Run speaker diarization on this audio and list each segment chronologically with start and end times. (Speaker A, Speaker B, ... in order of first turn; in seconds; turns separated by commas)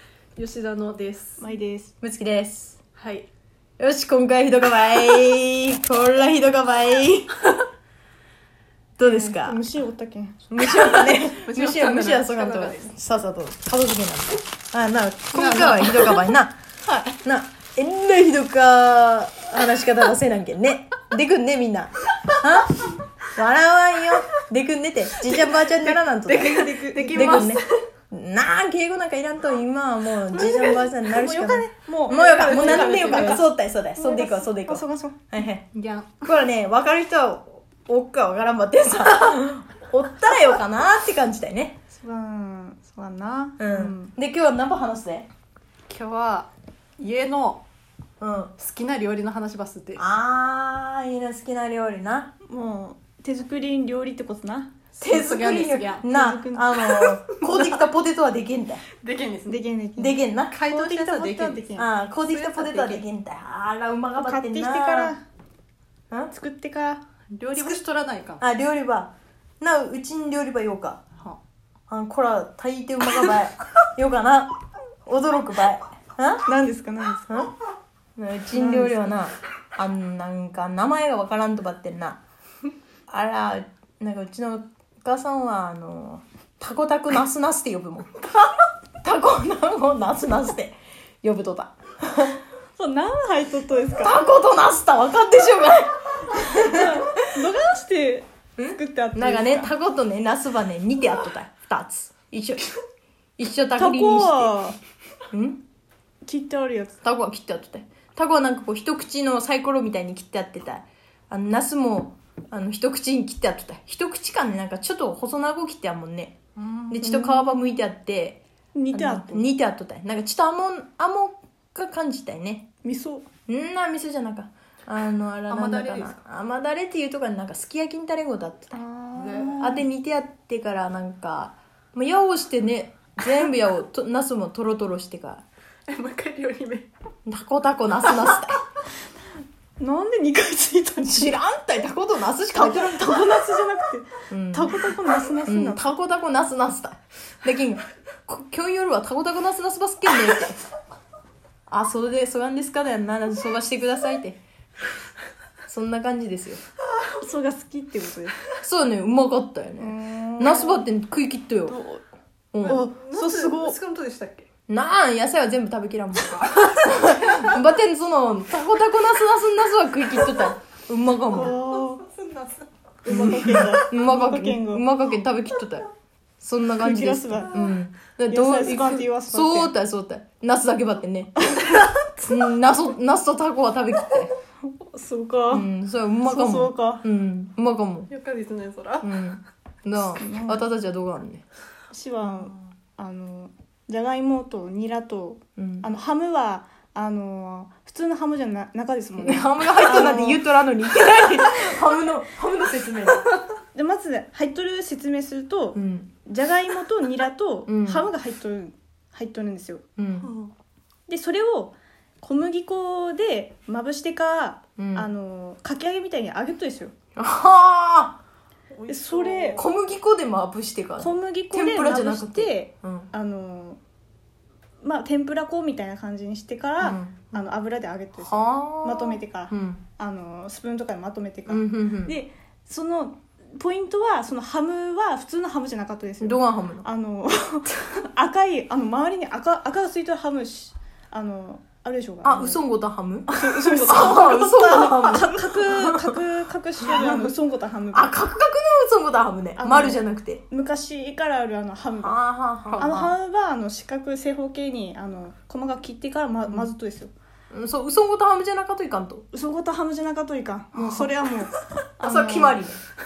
Speaker A: 0.3-1.4, Speaker B: 1.4-1.9, Speaker C: 2.0-2.8, Speaker A: 3.0-3.3, Speaker C: 3.8-7.3, Speaker C: 9.0-9.6, Speaker B: 9.0-10.4, Speaker C: 10.5-16.6, Speaker A: 10.8-12.9, Speaker A: 15.3-16.2, Speaker A: 16.9-17.2, Speaker C: 17.2-35.7, Speaker A: 25.3-27.8, Speaker B: 26.3-27.6, Speaker A: 30.3-30.9, Speaker B: 30.4-35.4, Speaker A: 32.1-33.4, Speaker A: 35.7-36.3, Speaker C: 36.2-41.8, Speaker B: 41.9-44.1, Speaker C: 43.6-45.3, Speaker A: 45.9-47.6, Speaker C: 48.2-48.5, Speaker A: 48.6-50.0, Speaker C: 50.0-52.3, Speaker B: 52.5-54.8, Speaker A: 55.0-56.1, Speaker C: 55.0-58.8, Speaker B: 56.0-57.2, Speaker A: 57.4-57.8, Speaker A: 59.0-59.6, Speaker B: 59.5-61.9, Speaker C: 60.0-60.9, Speaker A: 60.5-61.6, Speaker C: 61.7-65.1, Speaker A: 62.2-63.0, Speaker B: 64.2-65.2, Speaker B: 66.3-67.0, Speaker A: 67.3-68.4, Speaker C: 68.4-71.0, Speaker C: 71.9-76.5, Speaker B: 76.4-77.5, Speaker C: 78.2-82.2, Speaker B: 78.5-79.1, Speaker C: 83.1-88.5, Speaker C: 89.0-92.4, Speaker B: 92.8-94.2, Speaker C: 94.0-97.2, Speaker B: 96.4-99.7, Speaker C: 98.6-102.7, Speaker C: 103.4-104.5, Speaker B: 103.8-104.8, Speaker C: 105.3-105.6, Speaker B: 106.2-107.0, Speaker C: 107.0-116.4, Speaker A: 116.6-117.0, Speaker C: 116.9-118.4, Speaker B: 117.0-117.5, Speaker B: 118.7-119.4, Speaker C: 118.9-122.7, Speaker B: 122.8-123.3, Speaker C: 123.5-128.8, Speaker A: 125.5-126.2, Speaker B: 128.7-129.8, Speaker A: 129.2-129.5, Speaker C: 129.3-135.4, Speaker A: 135.9-136.9, Speaker C: 137.2-138.6, Speaker B: 139.8-141.4, Speaker C: 141.0-143.2, Speaker B: 142.6-145.8, Speaker C: 144.3-144.9, Speaker C: 145.4-150.6, Speaker C: 151.7-154.4, Speaker C: 155.7-156.6, Speaker B: 157.0-158.4, Speaker C: 158.6-161.8, Speaker B: 159.8-160.8, Speaker B: 161.7-162.0, Speaker C: 162.5-162.8, Speaker B: 162.6-163.8, Speaker A: 162.6-164.5, Speaker C: 164.7-171.6, Speaker B: 171.3-172.1, Speaker A: 171.6-172.7, Speaker B: 173.0-174.8, Speaker C: 173.1-175.9, Speaker C: 176.4-181.4, Speaker B: 176.8-177.6, Speaker B: 178.3-179.7, Speaker B: 181.4-181.7, Speaker C: 182.3-184.3, Speaker B: 184.7-185.7, Speaker C: 185.5-188.1, Speaker B: 186.3-187.0, Speaker A: 188.1-189.1, Speaker C: 189.0-191.4, Speaker B: 190.0-190.6, Speaker B: 191.9-200.4, Speaker C: 195.6-195.8, Speaker C: 199.2-203.3, Speaker B: 201.0-201.9, Speaker B: 203.7-209.8, Speaker C: 205.7-206.1, Speaker C: 207.7-208.1, Speaker C: 210.0-210.3, Speaker A: 210.2-210.5, Speaker B: 211.1-216.9, Speaker C: 214.8-215.1, Speaker C: 217.2-218.2, Speaker A: 218.7-219.6, Speaker B: 218.9-219.6, Speaker C: 219.5-223.1, Speaker B: 221.0-223.8, Speaker B: 224.8-242.6, Speaker C: 226.8-227.3, Speaker C: 228.2-229.8, Speaker C: 231.5-232.2, Speaker C: 236.2-236.9, Speaker C: 242.2-246.2, Speaker B: 243.3-248.2, Speaker A: 243.7-244.3, Speaker C: 246.8-247.3, Speaker C: 247.9-250.4, Speaker B: 249.6-252.2, Speaker C: 252.0-253.1, Speaker A: 252.7-253.0, Speaker B: 252.8-257.1, Speaker C: 257.5-259.2, Speaker B: 259.3-262.7, Speaker C: 260.7-261.1, Speaker C: 262.0-262.8